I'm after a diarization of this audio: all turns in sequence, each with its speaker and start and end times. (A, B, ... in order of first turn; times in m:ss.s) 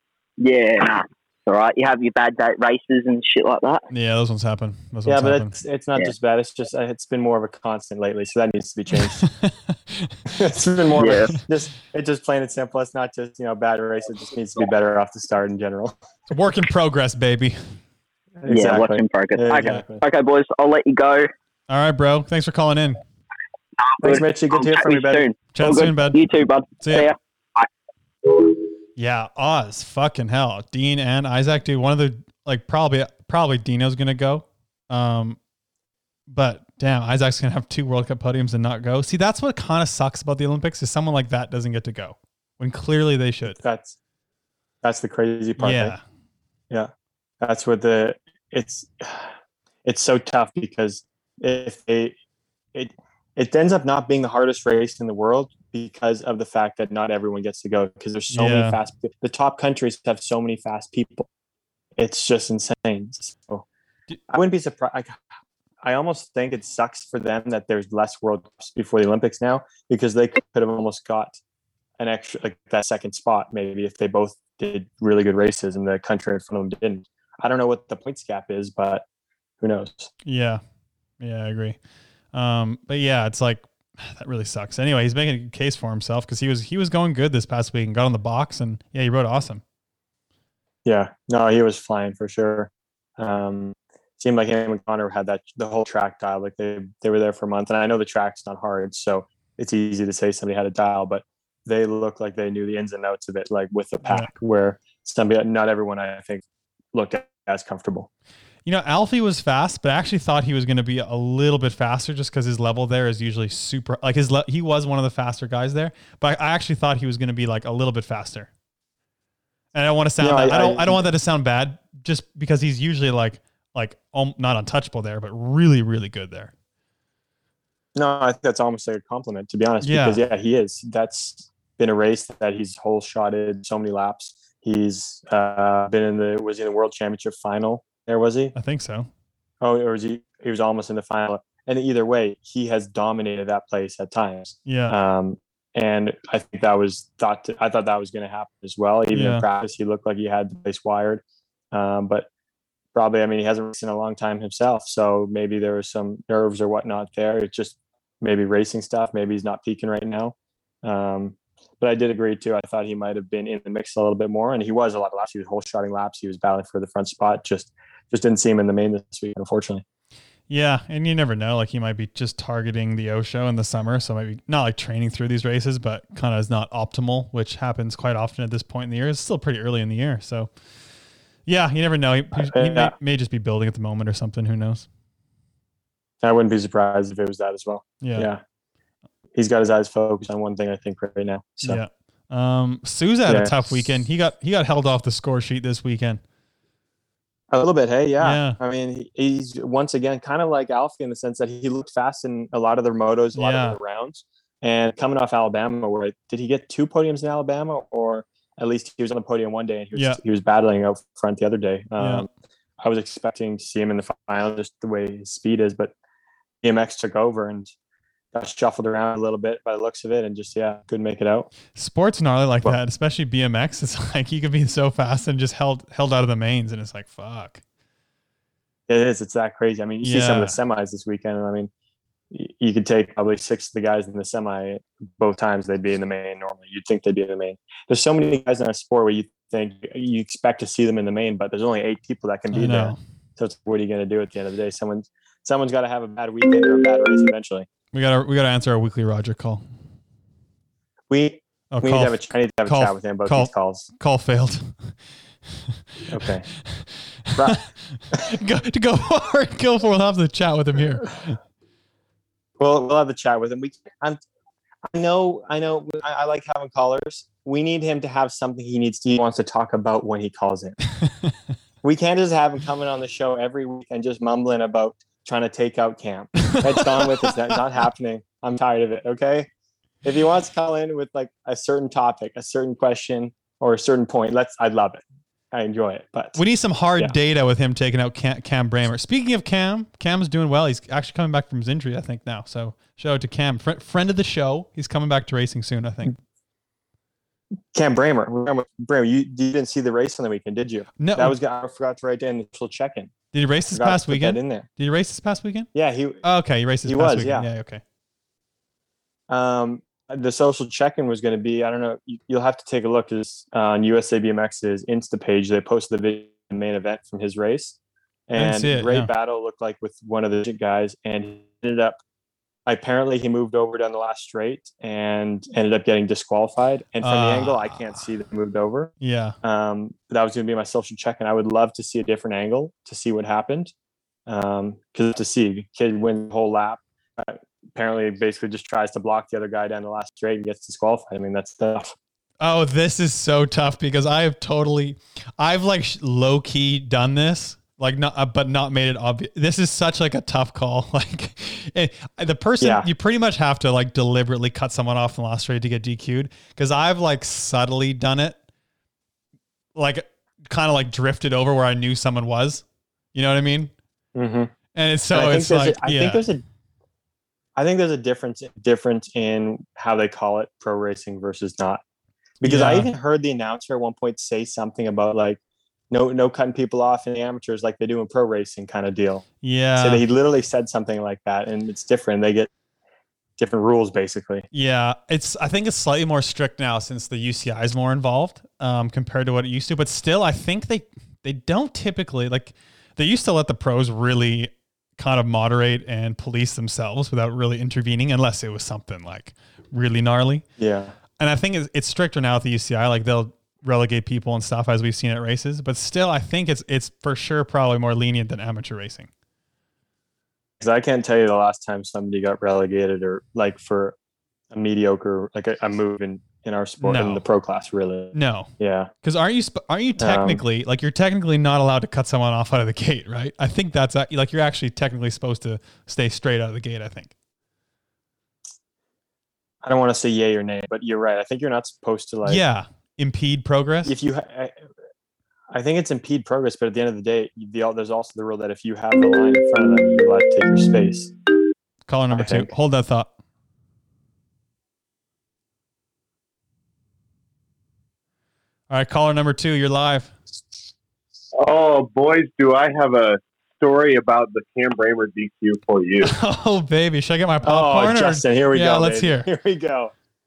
0:00.4-0:03.9 A
0:03.9-0:05.5 B
0:05.1-0:09.2 C
0:09.2-0:10.1 B
0:10.3-0:16.0 C
0:11.0-0:11.3 A
0:16.3-0:17.6 B
0:18.4-0:20.0 C
0:18.5-0:21.3 A
0:21.7-0:23.0 B
0:24.0-0:27.7 A
0:24.0-0:25.2 C
0:25.5-0:26.2 B
0:26.8-0:27.1 B
0:29.0-0:35.4 B
0:36.3-0:43.6 B
0:43.5-0:44.0 C
0:44.8-0:46.0 C
0:45.6-0:46.0 B
0:47.4-0:49.3 C
0:49.8-0:52.2 C
0:52.7-1:01.3 C
0:58.3-0:58.8 B
1:02.0-1:03.7 C
1:04.3-1:05.2 C
1:05.8-1:11.4 C
1:12.0-1:19.0 C
1:19.6-1:20.1 C
1:20.2-1:20.6 B
1:21.2-1:21.8 B
1:22.3-1:29.6 B
1:30.8-1:48.1 C
1:48.6-1:58.5 B
1:59.7-2:06.5 B
2:00.2-2:01.0 C
2:08.0-2:18.5 C
2:09.8-2:10.2 B
2:18.5-2:19.1 B
2:19.6-2:32.3 C
2:24.7-2:25.0 B
2:29.1-2:29.4 B
2:33.0-2:49.8 C
2:50.5-3:00.5 B
3:01.5-3:04.9 B
3:02.4-3:02.9 C
3:06.2-3:08.4 C
3:08.0-3:08.3 B
3:09.4-3:11.8 C
3:11.6-3:16.2 B
3:13.2-3:13.8 C
3:17.5-3:32.3 C
3:18.2-3:18.6 B
3:23.4-3:23.8 B
3:30.0-3:30.2 B
3:32.0-3:32.3 B
3:32.8-3:35.9 C
3:36.6-3:37.7 C
3:38.3-3:41.5 C
3:41.8-3:47.6 B
3:48.9-3:51.7 C
3:50.0-3:50.6 B
3:52.3-4:07.7 C
4:02.5-4:03.0 B
4:07.9-4:09.6 B
4:11.1-4:13.9 C
4:11.7-4:14.7 B
4:16.1-4:16.5 C
4:16.2-4:21.4 B
4:22.6-4:24.2 C
4:24.9-4:30.8 C
4:31.8-4:39.5 C
4:36.5-4:37.3 B
4:40.0-4:46.4 C
4:46.4-4:56.2 B
4:57.7-5:03.1 C
5:01.0-5:01.4 B
5:03.3-5:05.7 B
5:03.7-5:04.7 C
5:05.7-5:06.2 C
5:06.2-5:07.8 B
5:06.8-5:07.5 C
5:09.3-5:17.8 C
5:18.3-5:22.0 C
5:18.3-5:19.1 B
5:22.7-5:28.9 C
5:27.0-5:27.9 B
5:29.0-5:29.4 B
5:29.4-5:33.7 C
5:34.3-5:42.0 C
5:42.4-5:58.4 B
5:52.6-5:52.9 C
5:59.8-6:03.7 B
6:04.2-6:04.5 C
6:04.7-6:06.2 B
6:05.1-6:06.4 C
6:07.6-6:11.8 C
6:12.4-6:19.2 C
6:12.4-6:12.9 B
6:19.4-6:20.0 B
6:19.8-6:22.5 C
6:23.4-6:24.5 C
6:24.5-6:40.4 B
6:40.6-6:41.0 C
6:41.2-6:49.1 B
6:50.6-6:54.0 C
6:54.5-6:58.9 C
6:56.8-6:57.2 B
6:58.1-6:58.5 B
6:59.0-7:07.1 B
7:00.0-7:00.4 C
7:09.6-7:12.4 C
7:12.2-7:14.0 B
7:13.8-7:14.6 C
7:15.5-7:21.1 C
7:21.9-7:23.1 B
7:22.1-7:22.5 C
7:28.7-7:30.2 B
7:31.4-7:36.2 D
7:36.0-7:39.3 B
7:37.4-7:39.9 C